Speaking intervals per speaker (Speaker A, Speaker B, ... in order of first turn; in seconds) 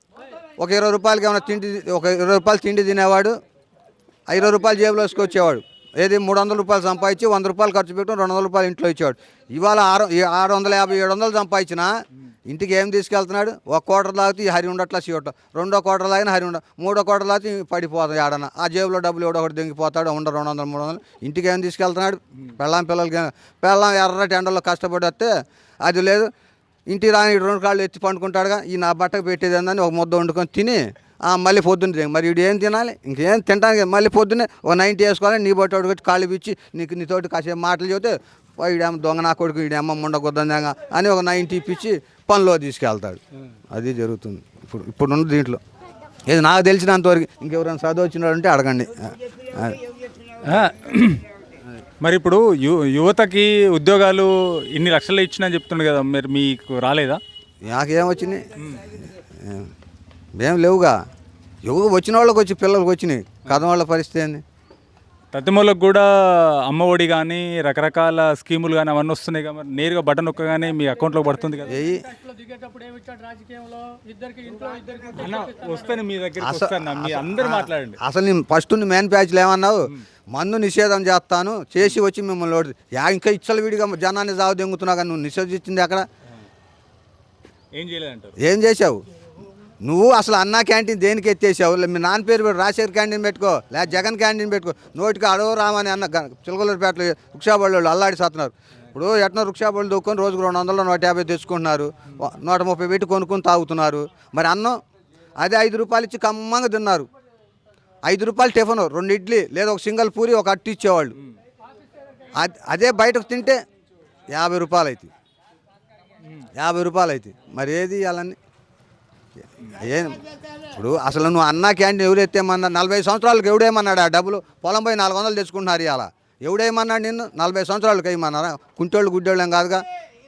Speaker A: 0.6-3.4, 4.3-12.0, 12.5-26.3, 26.9-43.2, 43.7-45.6, 46.3-49.8, 57.6-59.7, 60.4-61.0, 61.6-64.4, 71.7-72.1, 76.4-86.1, 88.4-89.0, 89.8-104.8, 105.4-107.1, 108.1-111.2, 112.3-113.6, 114.3-115.1, 116.5-118.4, 119.6-129.8
Speaker B: 50.4-51.3, 52.0-57.2, 58.6-58.9, 65.3-71.8, 75.0-78.0, 87.8-88.4
Speaker C: 72.3-75.0